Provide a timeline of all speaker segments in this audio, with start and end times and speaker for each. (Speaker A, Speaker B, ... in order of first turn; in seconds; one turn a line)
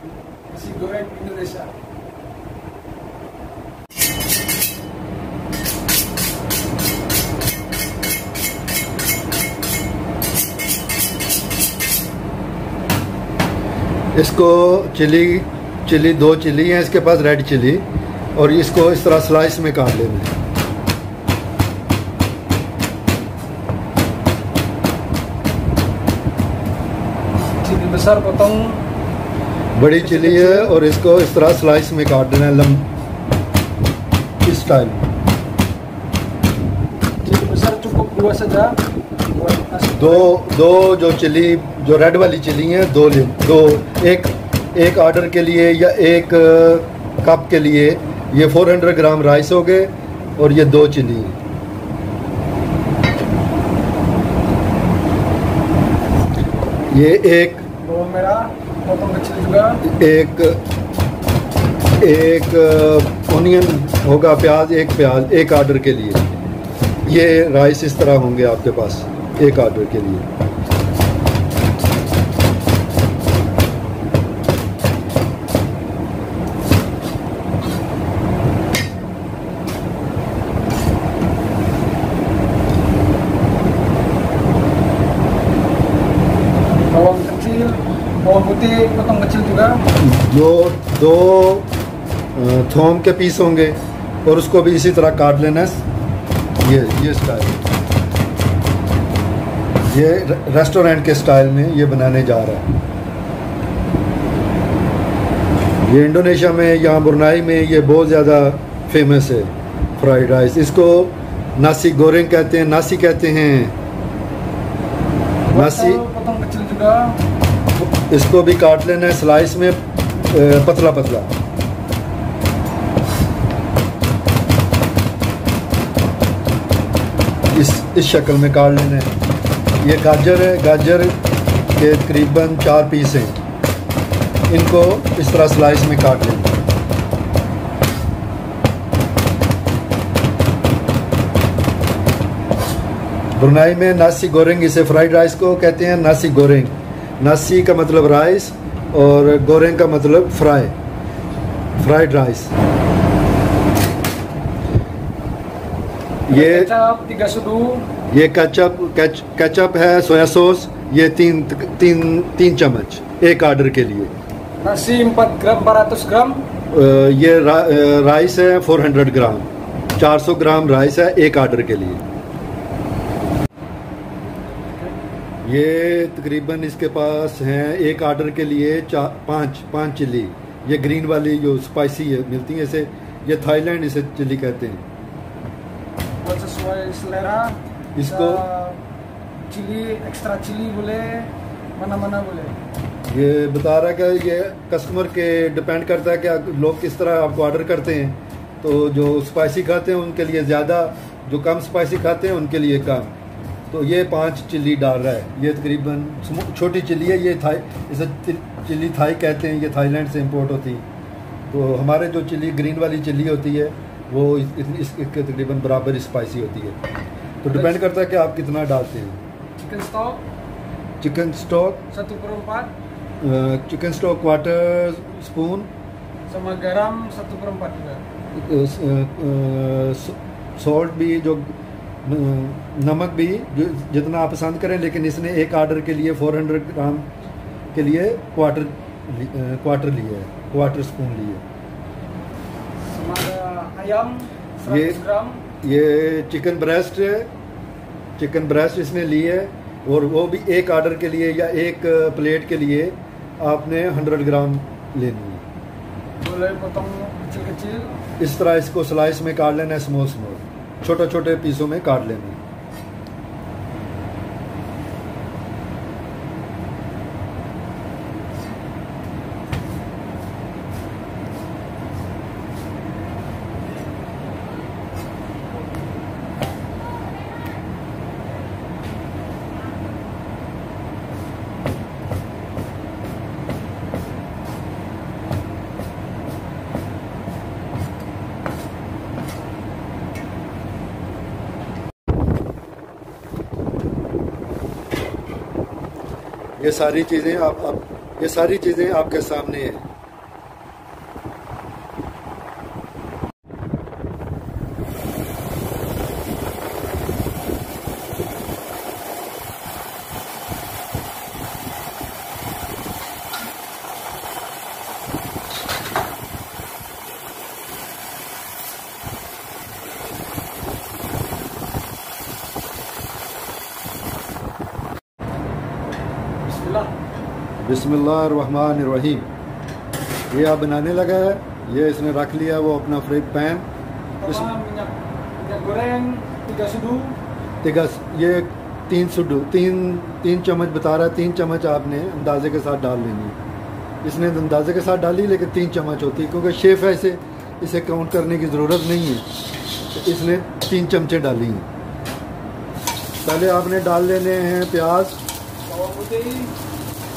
Speaker A: 0.5-1.7
Speaker B: 14.1-20.3
Speaker A: 27.3-28.8
Speaker B: 29.8-32.9
Speaker A: 29.9-30.8
Speaker B: 34.4-35.1
Speaker A: 37.2-38.8
Speaker A: 39.3-40.3
Speaker B: 40.0-51.4
Speaker B: 56.9-57.6
Speaker A: 57.8-59.8
Speaker B: 59.8-60.6
Speaker B: 62.0-66.3
Speaker B: 67.0-70.2
Speaker A: 86.9-89.8
Speaker B: 90.0-91.7
Speaker B: 92.3-95.8
Speaker B: 96.6-97.7
Speaker B: 99.9-102.7
Speaker B: 105.8-113.8
Speaker A: 115.5-117.2
Speaker B: 115.5-116.0
Speaker B: 117.8-121.3
Speaker B: 127.5-129.1
Speaker B: 129.8-131.2
Speaker B: 131.8-133.4
Speaker B: 134.5-136.6
Speaker B: 143.4-150.8
Speaker B: 151.8-152.5
Speaker B: 156.3-156.7
Speaker A: 156.3-157.9
Speaker B: 158.1-164.1
Speaker A: 164.6-166.5
Speaker B: 166.7-172.0
Speaker B: 175.4-184.8
Speaker A: 186.2-188.8
Speaker B: 187.9-188.4
Speaker A: 189.5-192.6
Speaker B: 193.1-203.1
Speaker B: 203.7-210.8
Speaker B: 211.5-216.8
Speaker B: 217.4-219.2
Speaker A: 217.5-217.8
Speaker A: 219.6-220.2
Speaker B: 221.0-221.8
Speaker A: 221.9-222.7
Speaker B: 223.2-225.7
Speaker A: 226.3-228.0
Speaker B: 228.3-237.1
Speaker B: 237.7-241.4
Speaker A: 242.9-245.4
Speaker B: 244.7-245.0
Speaker B: 245.6-247.3
Speaker B: 248.2-255.4
Speaker A: 256.2-257.9
Speaker B: 258.2-262.4
Speaker B: 296.6-299.8
Speaker A: 326.4-326.9
Speaker B: 327.6-329.3
Speaker B: 330.3-333.7
Speaker A: 334.2-337.2
Speaker B: 334.2-334.5
Speaker B: 337.6-343.4
Speaker B: 344.0-349.2
Speaker B: 349.9-351.7
Speaker B: 353.2-355.2
Speaker A: 355.7-356.5